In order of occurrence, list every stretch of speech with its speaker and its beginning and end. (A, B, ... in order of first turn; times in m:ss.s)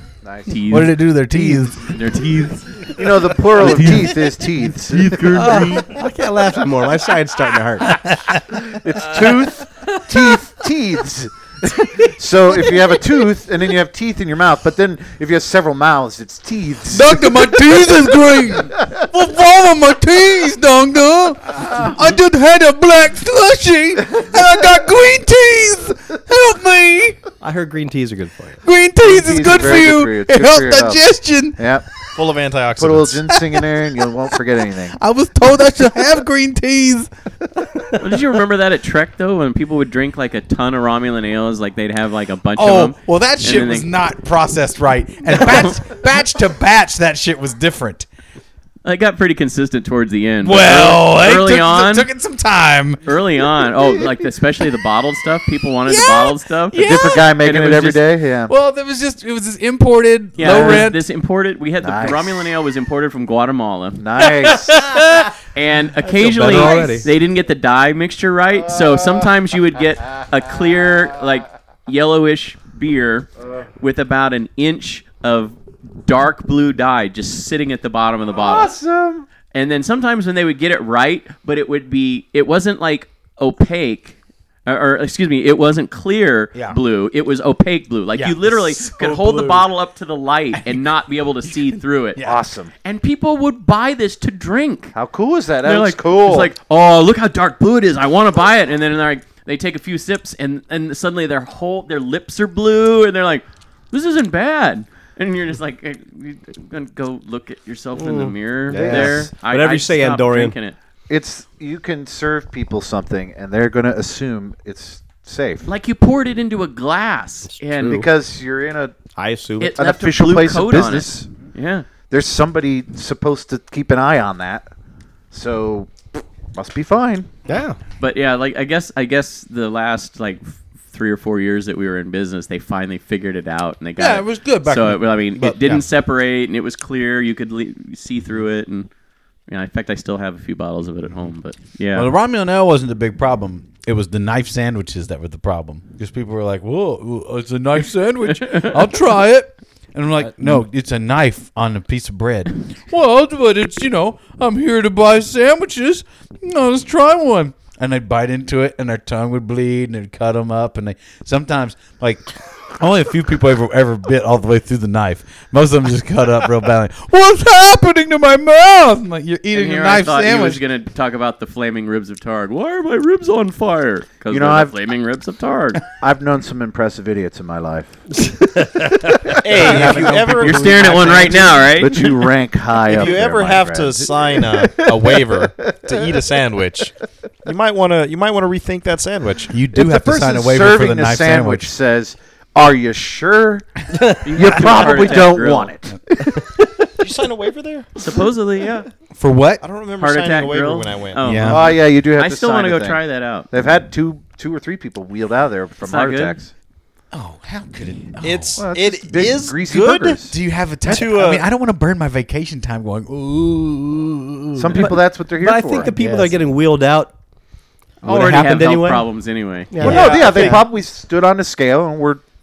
0:00.2-0:00.6 A
0:00.5-0:03.0 B
0:00.7-0:06.0 C
0:03.0-0:05.8 A
0:05.3-0:08.0 D
0:07.8-0:09.3 C
0:08.6-0:17.8 A
0:16.9-0:27.2 C
0:27.4-0:28.6 D
0:28.6-0:31.6 C
0:29.0-0:31.0 A
0:31.6-0:31.9 A
0:32.2-0:33.2 E
0:32.8-0:35.0 A
0:33.3-0:34.3 C
0:34.9-0:37.9 C
0:38.0-0:43.9 B
0:42.6-0:48.1 C
0:45.3-0:45.8 B
0:48.8-0:52.1 B
0:50.4-0:53.1 C
0:53.1-0:58.0 B
0:53.8-0:54.1 C
0:55.8-0:57.3 C
0:56.8-0:58.5 A
0:58.5-1:01.0 C
1:00.4-1:04.5 B
1:01.8-1:02.4 A
1:04.0-1:04.9 A
1:05.5-1:18.7 B
1:06.0-1:07.1 D
1:06.3-1:07.0 C
1:18.3-1:19.3 A
1:19.5-1:32.2 B
1:28.1-1:29.7 C
1:30.5-1:30.9 C
1:31.5-1:32.4 C
1:32.2-1:32.7 A
1:32.8-1:35.0 B
1:34.9-1:36.5 A
1:35.6-1:50.8 B
1:48.0-1:50.6 D
1:48.7-1:49.3 A
1:51.1-1:55.7 A
1:55.7-1:58.0 B
1:57.6-1:58.1 D
1:57.8-1:59.0 A
1:59.2-1:59.8 D
1:59.6-2:01.9 B
1:59.8-2:01.3 A
2:02.1-2:04.7 A
2:05.3-2:07.3 A
2:07.5-2:07.8 D
2:08.0-2:18.9 B
2:14.0-2:15.9 C
2:19.5-2:22.1 B
2:21.9-2:50.6 C
2:28.3-2:28.9 B
2:49.5-2:55.8 B
2:54.3-2:54.8 A
2:56.0-2:58.0 A
2:59.4-3:01.4 E
2:59.5-3:01.6 C
2:59.7-3:00.0 A
3:00.4-3:02.3 B
3:01.4-3:06.2 A
3:02.8-3:06.9 E
3:07.4-3:09.6 E
3:09.5-3:11.7 C
3:09.7-3:16.6 A
3:14.2-3:15.7 B
3:17.0-3:17.9 E
3:18.0-3:18.9 B
3:19.2-3:19.6 C
3:19.6-3:21.4 E
3:20.0-3:23.5 B
3:21.2-3:21.8 C
3:21.4-3:23.0 A
3:23.5-3:26.5 A
3:25.8-3:26.4 B
3:27.1-3:28.6 C
3:28.2-3:30.2 E
3:28.6-3:30.4 A
3:30.3-3:35.0 C
3:30.9-3:31.4 E
3:34.6-3:35.9 A
3:34.7-3:37.1 D
3:35.8-3:36.4 C
3:38.0-3:39.8 B
3:38.0-3:39.1 D
3:38.1-3:38.7 C
3:39.7-3:40.6 D
3:39.8-3:40.4 C
3:39.8-3:42.2 A
3:39.8-3:40.6 E